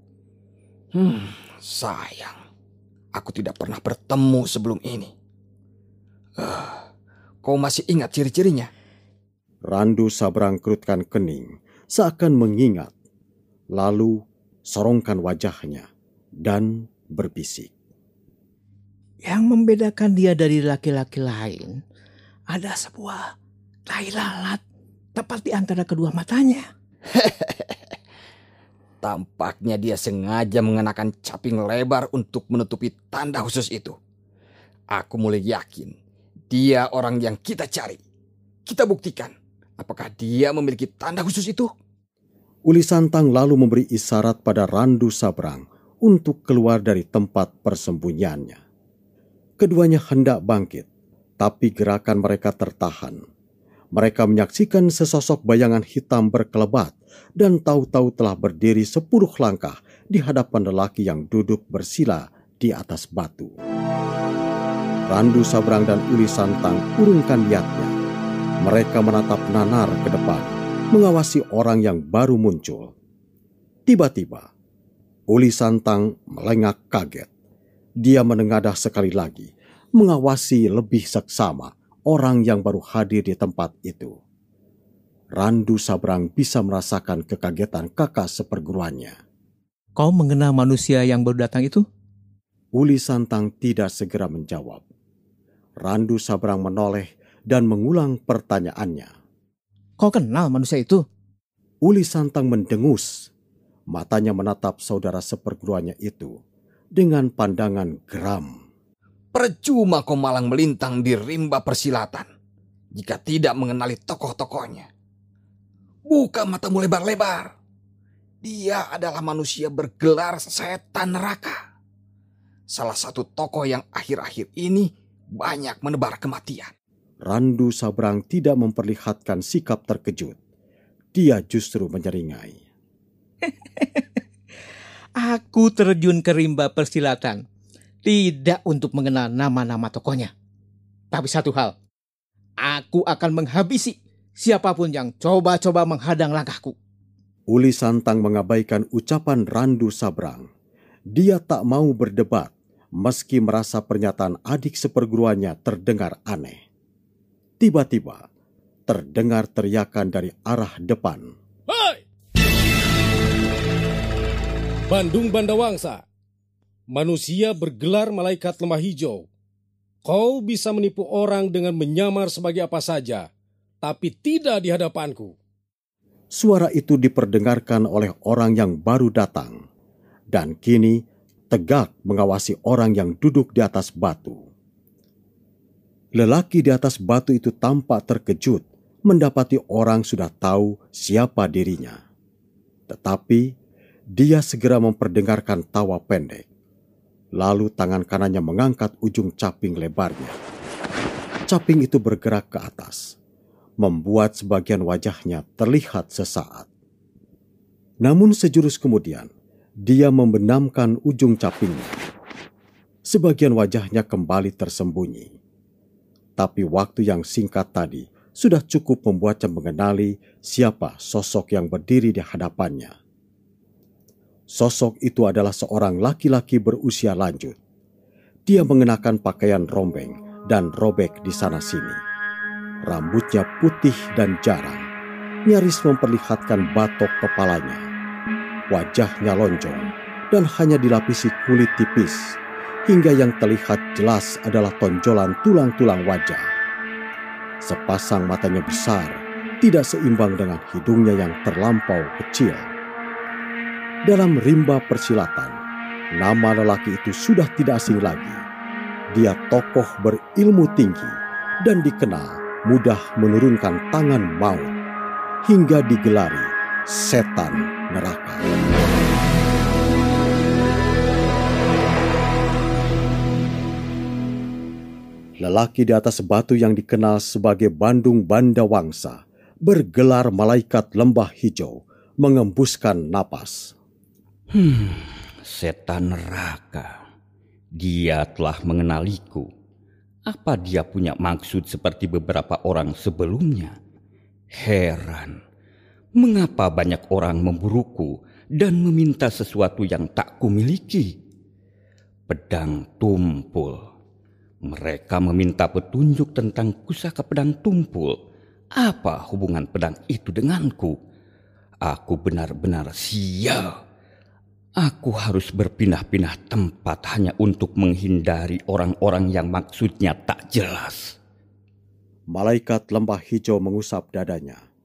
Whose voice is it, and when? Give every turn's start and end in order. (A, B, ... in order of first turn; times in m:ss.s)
0:00.9-0:02.4 A
0:03.1-0:05.1 A
0:06.4-0:06.8 A
0:07.4-0:08.7 A
0:09.7-0:12.9 B
0:13.7-0:15.9 B
0:16.4-0:17.7 B
0:19.2-0:21.8 C
0:22.5-0:23.3 C
0:23.9-0:24.6 C
0:25.2-0:26.6 C
0:29.0-0:34.0 A
0:34.9-0:35.9 A
0:36.5-0:38.0 A
0:38.6-0:41.7 A
0:42.7-0:48.6 B
0:49.6-0:50.9 B
0:51.4-0:53.2 B
0:53.9-1:03.5 B
1:05.1-1:07.9 B
1:08.6-1:12.9 B
1:13.9-1:14.5 B
1:15.3-1:17.3 B
1:18.0-1:24.2 B
1:25.4-1:29.2 B
1:30.0-1:31.8 C
1:32.7-1:34.8 B
1:35.8-1:39.1 B
1:40.0-1:41.0 C
1:41.8-1:43.3 B
1:43.9-1:46.4 B
1:47.0-1:48.6 B
1:49.3-1:52.3 A
1:52.9-1:54.9 A
1:56.1-1:57.5 A
1:58.4-2:01.6 A
2:02.7-2:04.9 A
2:05.4-2:06.7 A
2:07.2-2:10.4 B
2:11.1-2:12.6 B
2:13.5-2:14.0 C
2:15.2-2:17.4 C
2:18.0-2:20.3 C
2:21.1-2:21.7 C
2:22.6-2:26.7 C
2:27.5-2:30.5 B
2:31.1-2:36.6 B
2:37.6-2:38.2 B
2:38.9-2:41.3 B
2:41.7-2:42.0 D
2:44.9-2:46.0 D
2:46.9-2:49.2 D
2:50.0-2:53.3 D
2:53.8-2:55.3 D
2:56.3-2:59.6 B
3:00.3-3:04.4 B
3:06.2-3:12.0 B
3:12.9-3:13.5 B
3:14.2-3:16.4 B
3:17.4-3:20.4 B
3:21.5-3:23.1 B
3:23.8-3:26.7 B
3:28.0-3:29.3 B
3:29.8-3:32.0 B
3:33.1-3:35.3 B
3:36.4-3:42.9 B
3:44.5-3:47.6 B
3:48.5-3:52.0 B
3:52.8-3:54.8 B
3:55.5-3:57.8 B
3:58.7-4:02.3 B
4:02.9-4:06.4 B
4:07.6-4:12.7 B
4:14.0-4:15.6 B
4:16.2-4:18.4 B
4:19.1-4:24.7 B
4:25.4-4:28.4 B
4:35.4-4:43.7 B
4:44.5-4:46.9 E
4:47.8-4:49.5 E
4:50.3-4:53.7 E
4:54.5-4:55.4 E
4:56.2-5:01.1 E
5:02.3-5:03.8 E
5:04.6-5:08.2 E
5:08.8-5:11.0 E
5:11.8-5:13.7 E
5:14.8-5:21.2 E
5:22.3-5:24.6 B